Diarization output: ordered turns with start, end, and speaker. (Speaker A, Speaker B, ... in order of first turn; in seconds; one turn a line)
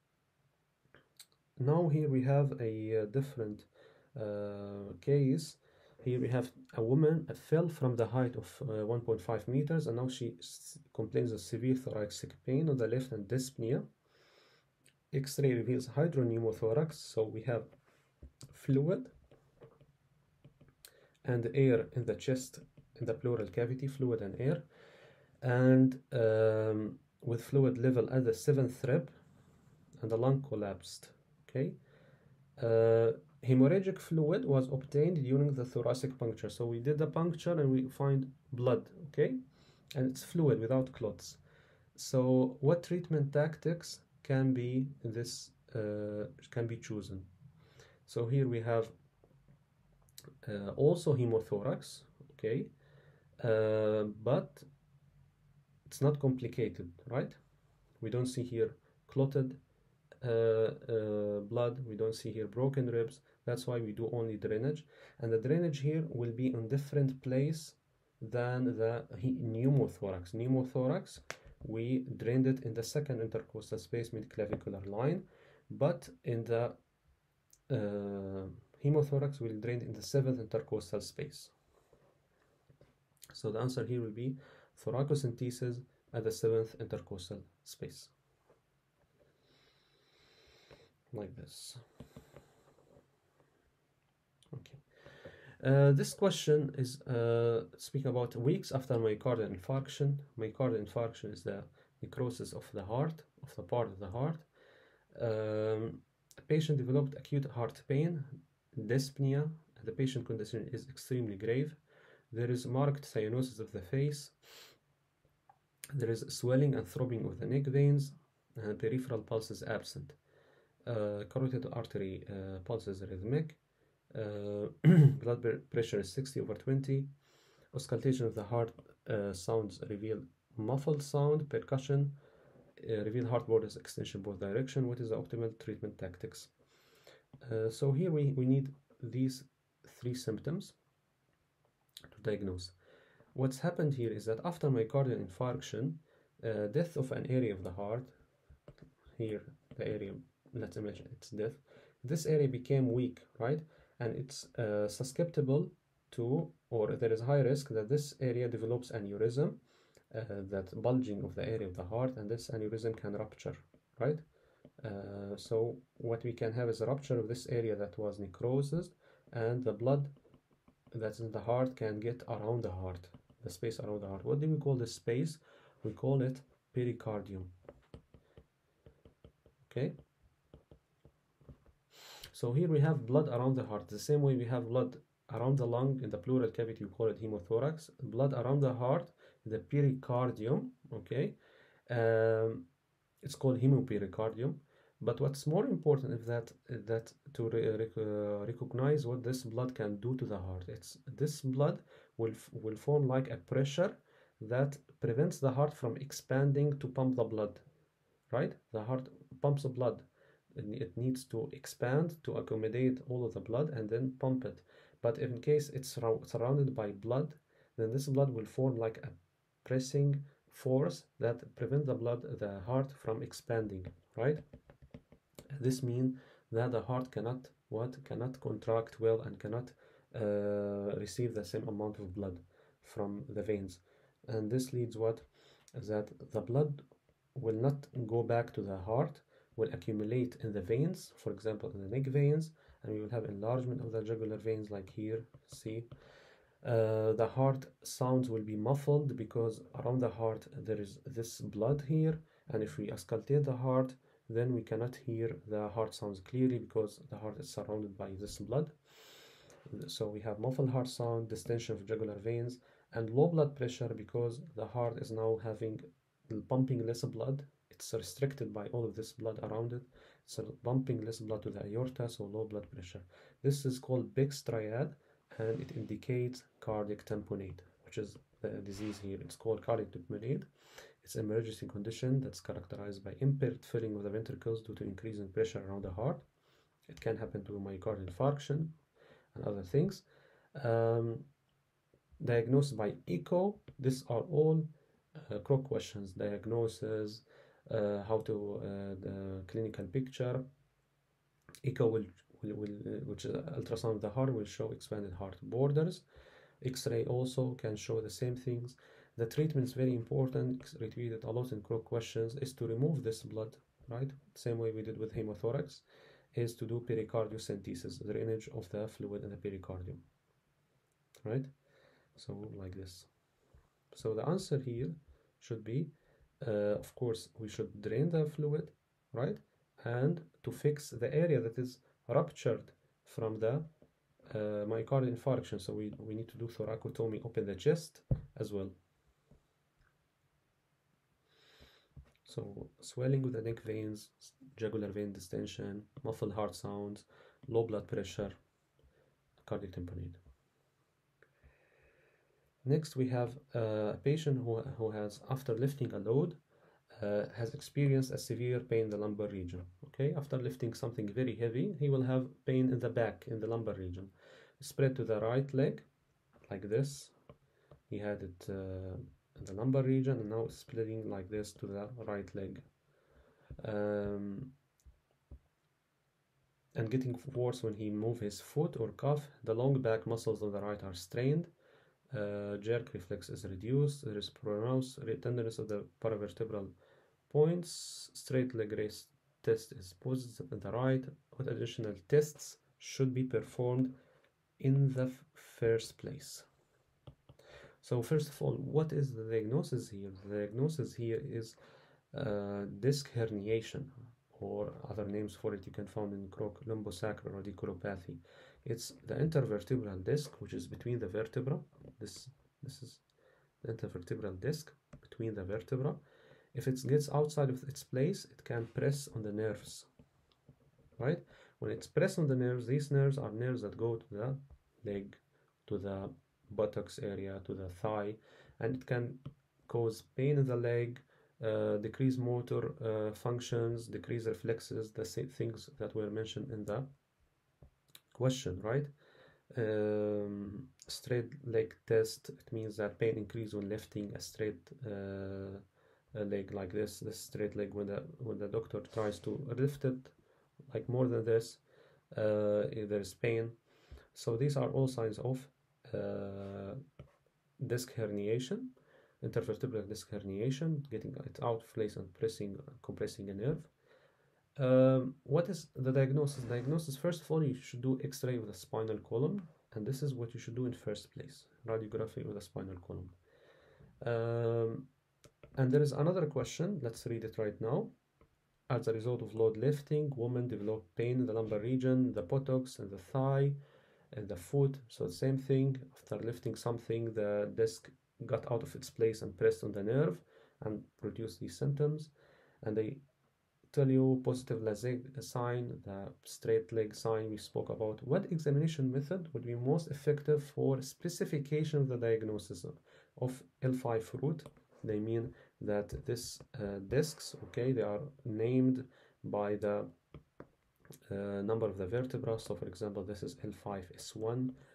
Speaker A: 1.6-13.9
Speaker A: 15.1-17.7
Speaker A: 18.5-19.1
Speaker A: 21.2-24.6
Speaker A: 25.4-29.1
Speaker A: 30.0-31.8
Speaker A: 32.6-39.4
Speaker A: 40.0-41.4
Speaker A: 42.0-47.3
Speaker A: 48.1-49.0
Speaker A: 50.4-52.7
Speaker A: 53.4-54.7
Speaker A: 55.9-57.4
Speaker A: 58.0-59.6
Speaker A: 60.2-76.8
Speaker A: 77.7-81.5
Speaker A: 83.3-88.1
Speaker A: 91.1-91.8
Speaker A: 94.5-94.8
Speaker A: 95.6-104.5
Speaker A: 105.1-111.8
Speaker A: 112.3-114.3
Speaker A: 115.9-120.2
Speaker A: 120.8-123.6
Speaker A: 124.1-127.1
Speaker A: 127.7-132.2
Speaker A: 132.8-136.5
Speaker A: 137.4-140.8
Speaker A: 142.1-142.8
Speaker A: 143.3-148.2
Speaker A: 149.2-159.6
Speaker A: 160.1-164.2
Speaker A: 164.8-170.1
Speaker A: 170.9-177.5
Speaker A: 179.7-180.0
Speaker A: 182.3-191.4
Speaker A: 191.9-192.7
Speaker A: 193.2-207.7
Speaker A: 208.3-224.4
Speaker A: 225.5-236.8
Speaker A: 237.3-245.9
Speaker A: 246.6-258.8
Speaker A: 259.7-280.5
Speaker A: 281.0-286.3
Speaker A: 286.9-288.8
Speaker A: 289.3-291.3
Speaker A: 292.2-300.4
Speaker A: 301.6-306.1
Speaker A: 306.6-320.0
Speaker A: 321.2-321.5
Speaker A: 322.1-323.1
Speaker A: 323.9-333.7
Speaker A: 334.3-338.8
Speaker A: 342.2-348.4
Speaker A: 349.4-350.2
Speaker A: 352.6-356.4
Speaker A: 357.0-365.9
Speaker A: 366.5-367.1
Speaker A: 367.9-372.6
Speaker A: 373.6-374.5
Speaker A: 376.8-381.5
Speaker A: 382.1-386.7
Speaker A: 387.3-393.9
Speaker A: 394.6-396.5
Speaker A: 397.8-401.6
Speaker A: 402.1-413.0
Speaker A: 413.6-416.0
Speaker A: 416.5-419.9
Speaker A: 421.0-436.9
Speaker A: 438.1-438.9
Speaker A: 439.5-450.1
Speaker A: 450.7-453.6
Speaker A: 454.1-456.8
Speaker A: 457.6-463.7
Speaker A: 464.6-473.1
Speaker A: 474.0-474.9
Speaker A: 475.6-477.9
Speaker A: 478.7-483.6
Speaker A: 484.1-493.0
Speaker A: 493.7-509.9
Speaker A: 511.1-514.5